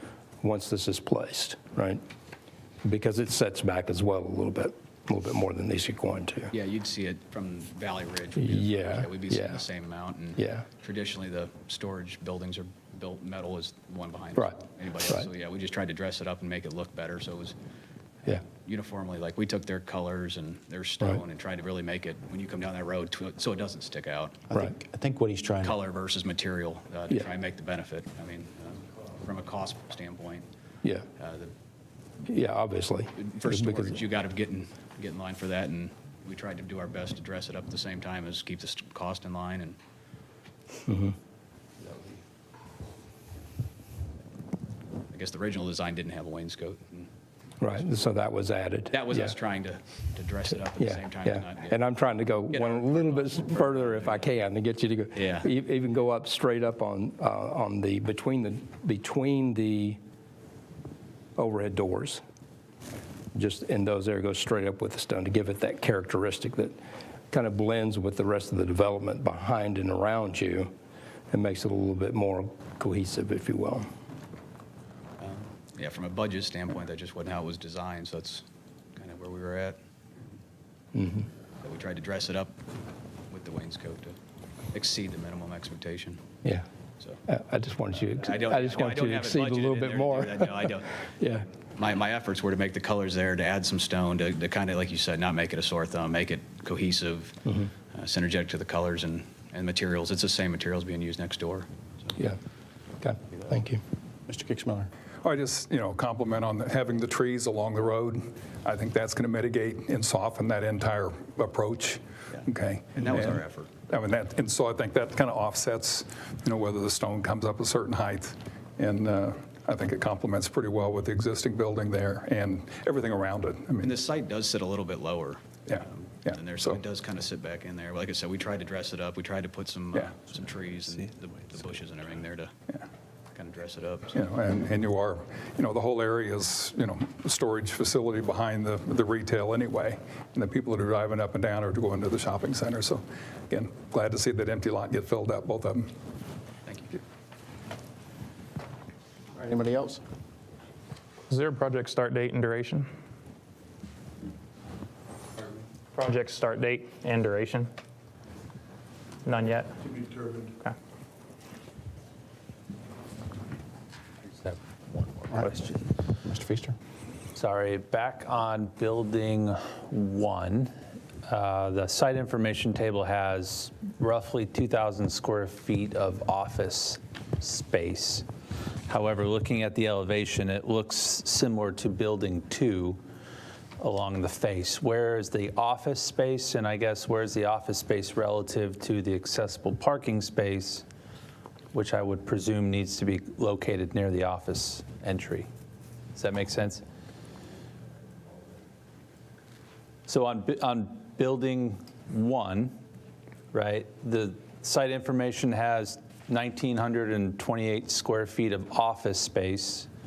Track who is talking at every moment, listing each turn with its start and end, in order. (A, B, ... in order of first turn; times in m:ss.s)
0:00.4-0:02.0 A
0:02.8-0:06.5 A
0:06.5-0:17.5 B
0:08.4-0:09.6 A
0:10.4-0:10.6 A
0:18.4-0:24.4 B
0:24.5-0:25.8 C
0:25.6-0:30.4 B
0:31.2-0:31.5 B
0:32.3-0:34.0 A
0:33.2-0:39.8 B
0:40.9-0:41.1 A
0:41.8-0:42.1 B
0:45.1-0:47.1 B
0:47.6-0:49.3 A
0:48.9-0:51.8 B
0:50.8-1:00.0 A
0:52.5-0:54.3 B
0:55.1-0:55.4 B
1:01.4-1:02.2 A
1:03.3-1:06.8 A
1:07.3-1:10.7 A
1:11.3-1:13.9 A
1:15.2-1:18.4 B
1:19.0-1:19.8 B
1:20.9-1:21.2 A
1:21.6-1:22.6 B
1:23.3-1:24.2 B
1:24.7-1:26.2 B
1:27.3-1:31.4 A
1:28.1-1:31.0 B
1:31.8-1:42.2 B
1:43.0-1:43.8 A
1:44.3-1:44.9 C
1:45.2-2:03.9 D
1:52.3-1:53.7 B
2:03.8-2:12.5 B
2:05.7-2:06.8 D
2:13.3-2:14.2 B
2:14.1-2:25.9 D
2:26.6-2:27.0 B
2:29.4-2:30.0 C
2:31.3-2:32.9 E
2:36.0-2:37.7 E
2:39.2-2:39.8 E
2:44.3-2:44.6 F
2:45.1-2:45.8 F
2:46.2-2:46.8 C
2:47.4-2:50.7 F
2:51.2-2:58.2 F
2:58.9-3:03.0 F
3:03.8-3:10.8 F
3:11.7-3:15.5 F
3:16.2-3:16.8 F
3:20.1-3:22.7 F
3:23.5-3:29.9 F